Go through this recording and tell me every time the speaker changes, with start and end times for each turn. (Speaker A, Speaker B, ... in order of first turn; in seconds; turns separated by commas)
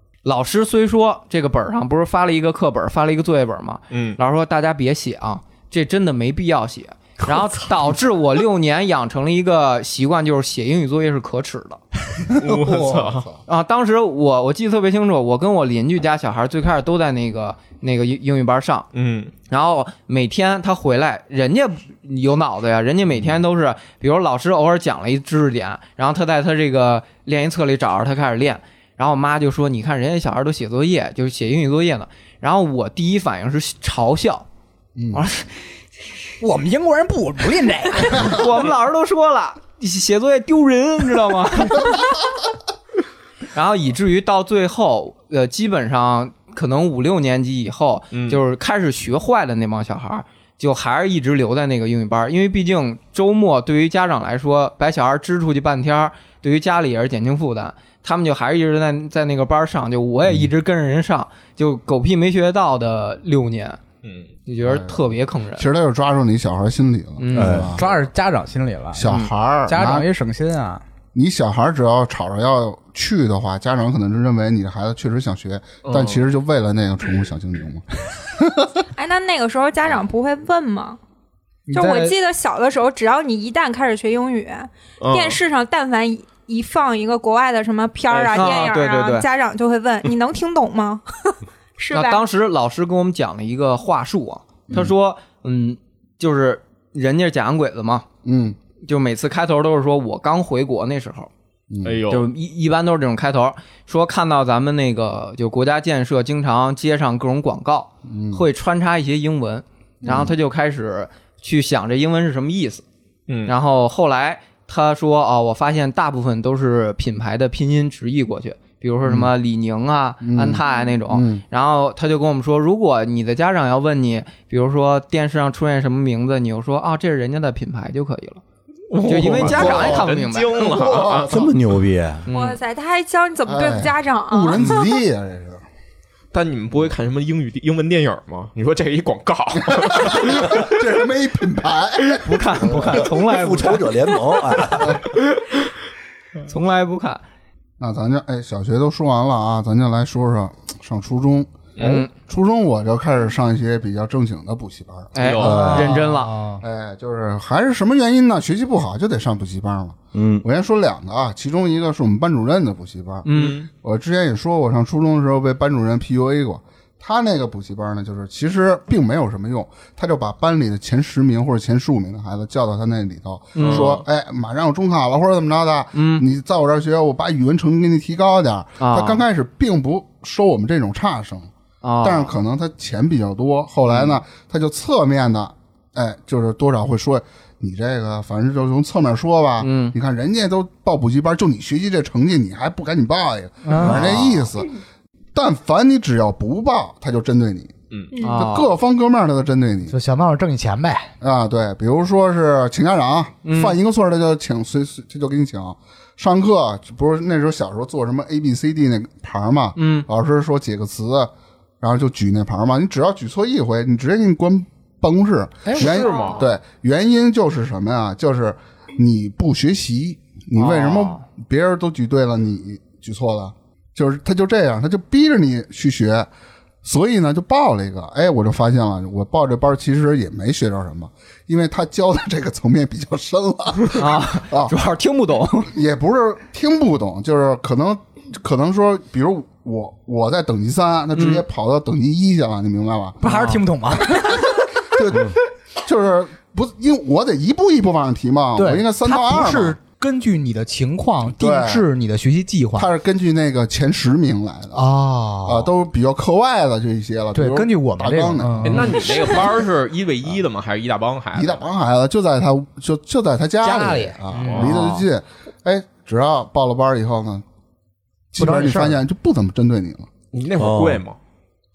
Speaker A: 0.2-11.8, Speaker B: 3.9-4.2, Speaker B: 12.3-13.3, Speaker C: 12.4-13.4, Speaker A: 13.4-18.9, Speaker B: 18.9-19.3, Speaker A: 19.5-34.5, Speaker C: 35.0-35.2, Speaker A: 35.1-35.6, Speaker D: 36.4-38.5, Speaker A: 38.1-42.0, Speaker A: 43.5-63.8, Speaker B: 48.1-48.4, Speaker A: 64.5-65.7, Speaker C: 64.6-67.8, Speaker A: 67.2-67.7, Speaker E: 67.3-67.8, Speaker D: 67.4-70.8, Speaker C: 68.9-70.1, Speaker C: 71.1-78.7, Speaker B: 75.8-76.2, Speaker F: 79.0-81.0, Speaker D: 81.7-82.2, Speaker F: 81.7-92.2, Speaker B: 85.0-85.4, Speaker A: 88.1-89.3, Speaker A: 91.9-98.0, Speaker C: 98.2-98.6, Speaker A: 98.8-101.3, Speaker C: 101.7-102.0, Speaker B: 101.8-102.3, Speaker A: 102.1-112.8, Speaker C: 108.0-108.4, Speaker C: 110.0-110.3, Speaker B: 113.3-113.5, Speaker A: 113.5-128.4, Speaker C: 119.0-119.3, Speaker C: 120.2-121.4, Speaker B: 128.9-131.5, Speaker A: 129.0-130.7, Speaker C: 129.4-131.5, Speaker E: 131.3-132.3, Speaker A: 132.2-132.6, Speaker F: 132.3-134.6, Speaker C: 133.5-135.6, Speaker B: 136.3-140.7, Speaker C: 139.6-142.9, Speaker A: 142.2-143.9, Speaker E: 142.9-145.0, Speaker A: 146.5-147.2, Speaker C: 147.8-155.9, Speaker A: 151.8-152.1, Speaker A: 155.1-156.3, Speaker B: 155.2-155.6, Speaker D: 155.4-156.6, Speaker E: 155.4-155.9, Speaker C: 156.6-181.5, Speaker E: 160.1-160.4, Speaker A: 163.2-163.6, Speaker B: 163.3-163.7, Speaker A: 173.5-174.0, Speaker B: 173.6-174.0, Speaker A: 175.9-176.2, Speaker A: 178.8-179.2, Speaker A: 181.8-182.3, Speaker C: 182.0-194.7, Speaker A: 189.6-189.9, Speaker D: 193.6-194.1, Speaker A: 193.8-194.4, Speaker C: 195.3-199.9, Speaker A: 198.2-198.7, Speaker D: 199.9-201.1, Speaker C: 201.2-226.3, Speaker A: 203.4-203.8, Speaker A: 209.8-210.1, Speaker B: 215.7-216.4, Speaker A: 220.5-221.2, Speaker C: 226.8-234.7, Speaker A: 233.9-235.7, Speaker C: 235.7-243.2, Speaker A: 241.2-241.4, Speaker D: 243.2-244.5, Speaker A: 243.2-243.6, Speaker C: 244.1-249.8, Speaker D: 248.6-252.9, Speaker C: 251.2-251.9, Speaker C: 252.8-254.9, Speaker D: 254.7-255.7, Speaker C: 255.4-259.5, Speaker D: 257.3-259.1, Speaker B: 258.6-261.6, Speaker C: 261.3-267.4, Speaker D: 263.6-265.0, Speaker B: 264.4-264.8, Speaker C: 268.3-270.1, Speaker D: 268.4-269.0, Speaker B: 270.3-271.2, Speaker E: 270.6-271.0